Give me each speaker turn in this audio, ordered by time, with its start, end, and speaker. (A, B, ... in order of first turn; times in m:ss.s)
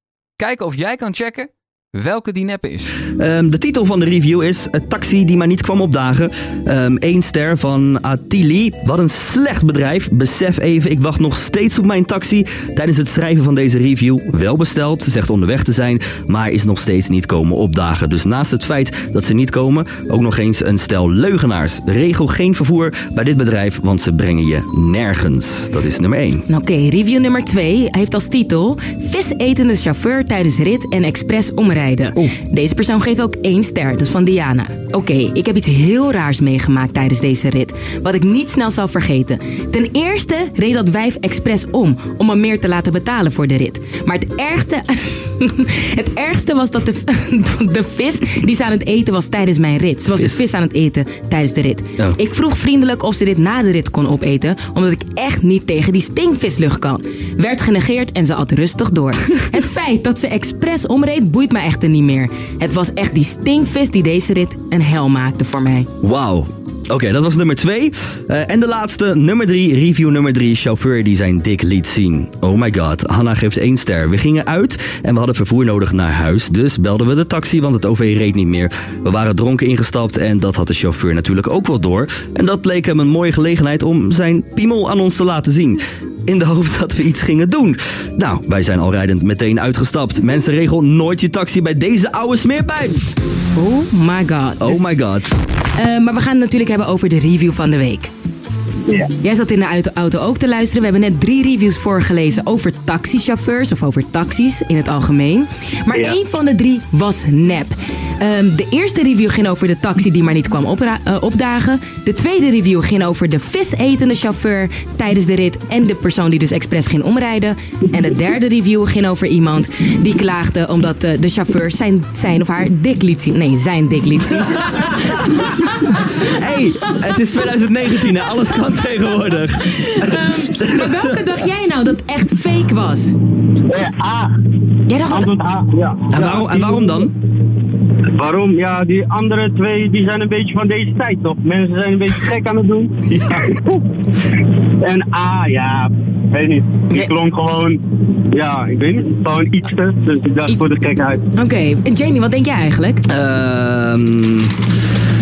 0:00.4-0:03.0 A
0:03.2-0:26.4 B
0:26.5-1:05.9 C
0:50.2-0:50.4 B
1:06.0-1:33.0 B
1:33.6-1:34.9 C
1:34.6-1:35.4 B
1:35.8-1:38.1 C
1:39.2-2:06.3 C
2:06.2-2:11.3 B
2:09.7-2:13.1 C
2:13.7-2:14.3 D
2:14.9-2:15.3 C
2:15.0-2:17.0 D
2:16.1-2:17.1 B
2:18.1-2:23.7 D
2:23.1-2:23.4 B
2:24.8-2:27.8 D
2:28.3-2:31.2 D
2:31.3-2:33.0 C
2:33.1-2:34.7 B